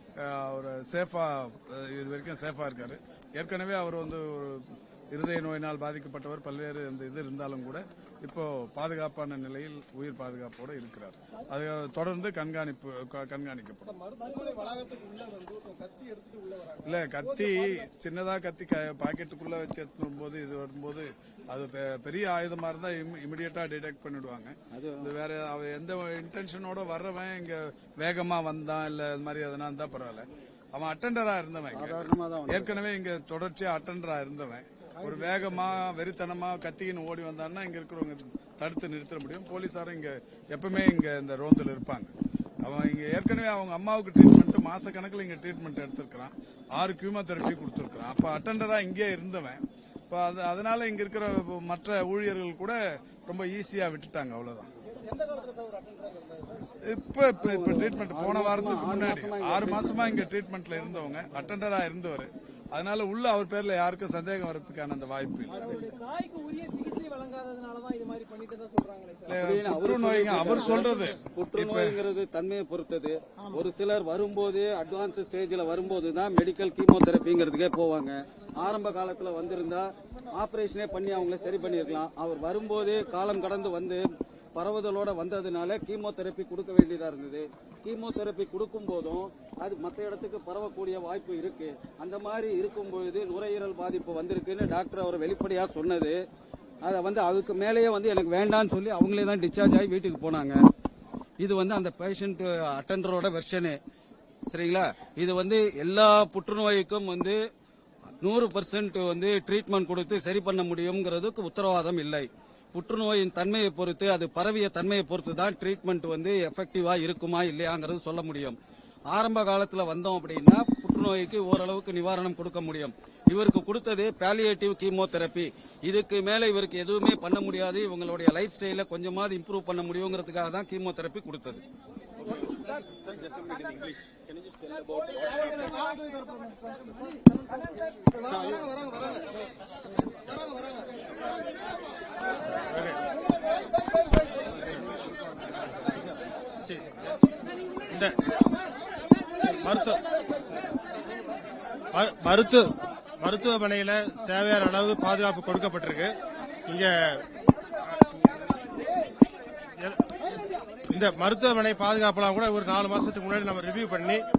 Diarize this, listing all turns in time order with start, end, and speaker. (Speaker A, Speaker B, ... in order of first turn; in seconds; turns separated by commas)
Speaker A: 0.2-14.0, Speaker B: 14.0-16.7, Speaker A: 16.7-42.1, Speaker C: 24.7-25.1, Speaker C: 31.7-32.8, Speaker A: 42.6-54.7, Speaker B: 55.0-56.5, Speaker A: 56.8-65.9, Speaker C: 57.4-60.2, Speaker B: 65.8-69.2, Speaker A: 69.2-72.0, Speaker C: 69.3-96.2, Speaker C: 96.8-100.6, Speaker C: 101.4-103.8, Speaker C: 104.5-107.4, Speaker C: 108.2-118.6, Speaker C: 119.1-131.6, Speaker B: 133.4-133.8, Speaker B: 134.9-137.5, Speaker B: 138.1-138.9, Speaker D: 138.4-138.7, Speaker D: 142.6-143.0, Speaker D: 146.6-147.0, Speaker D: 147.9-148.2, Speaker D: 149.4-150.0, Speaker D: 151.9-156.1, Speaker D: 156.7-157.2, Speaker D: 159.8-160.2, Speaker D: 160.9-164.2